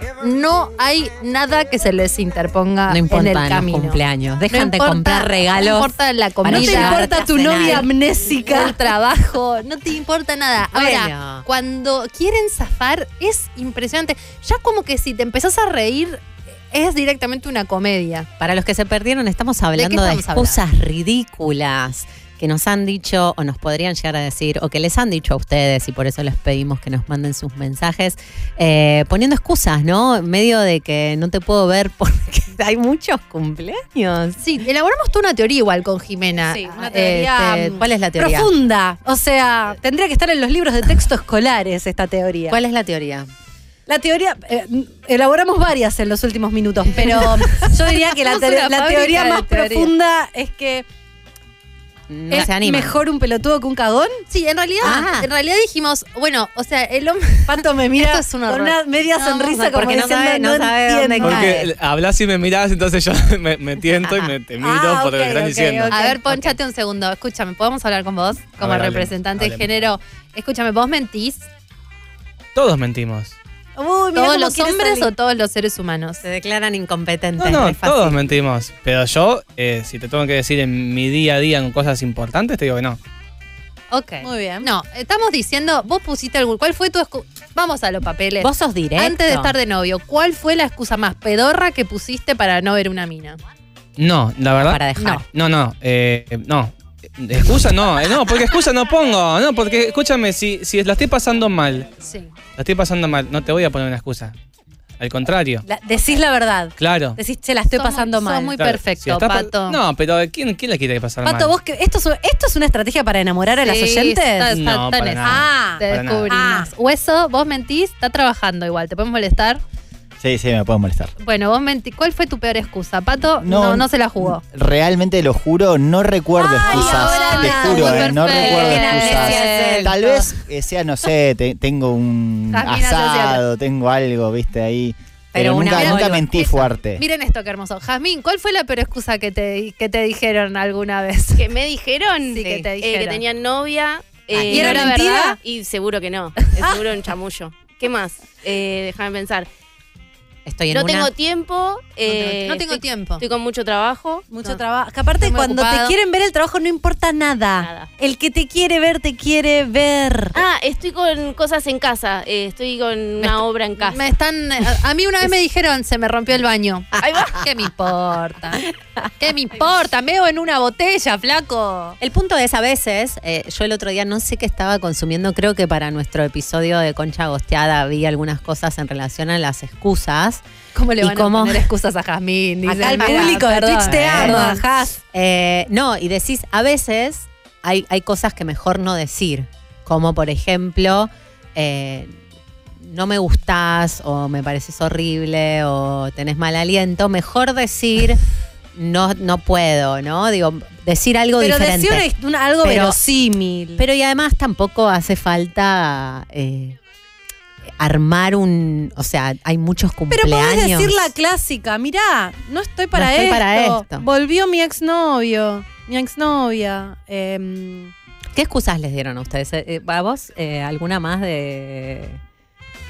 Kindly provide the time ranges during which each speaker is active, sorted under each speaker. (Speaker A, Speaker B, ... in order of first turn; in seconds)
Speaker A: 0.2-7.1, 7.6-18.3, 19.8-20.6, 34.4-37.7, 47.0-49.9, 54.3-59.5, 65.9-71.5, 74.2-76.2, 83.9-93.4, 95.0-95.2, 102.0-102.3, 107.7-109.8, 113.6-119.6, 121.2-124.4, 126.5-129.4, 132.5-133.4, 135.7-141.5, 142.3-143.2, 144.5-144.9, 152.1-153.2, 155.2-155.9, 163.2-168.6, 169.2-172.0, 180.8-184.6
Speaker B: 2.9-5.9, 6.4-7.9, 10.7-11.4, 18.4-34.4, 36.9-38.5, 42.5-43.3, 52.1-52.9, 54.8-55.3, 59.3-61.7, 63.9-64.3, 76.2-78.3, 88.4-89.5, 94.6-95.2, 128.3-130.2, 135.3-136.3, 144.3-144.7, 150.4-151.1, 172.0-180.4, 181.0-181.7, 182.9-184.6, 185.1-192.2, 192.8-198.2, 198.8-202.1, 202.6-203.0, 203.8-206.8, 207.8-211.1, 212.9-214.1, 218.3-222.2
Speaker C: 6.5-8.8, 36.5-42.6, 43.9-50.9, 52.3-54.2, 57.5-61.5, 64.6-66.5, 73.8-75.1, 84.2-84.7, 105.7-108.6, 111.2-114.5, 115.2-116.7, 126.6-129.9, 144.5-145.4, 154.3-160.4, 182.7-185.0, 201.4-203.8, 210.1-217.9
Speaker D: 61.3-65.9, 68.6-69.9, 72.5-73.4, 77.4-83.0, 94.0-101.9, 102.5-104.3, 105.0-105.7, 106.8-107.2, 108.6-111.5, 114.5-116.3
Speaker E: 120.2-121.1, 123.4-137.0
Speaker F: 141.4-149.5, 150.7-154.3, 157.6-157.9, 160.3-164.0, 167.0-167.3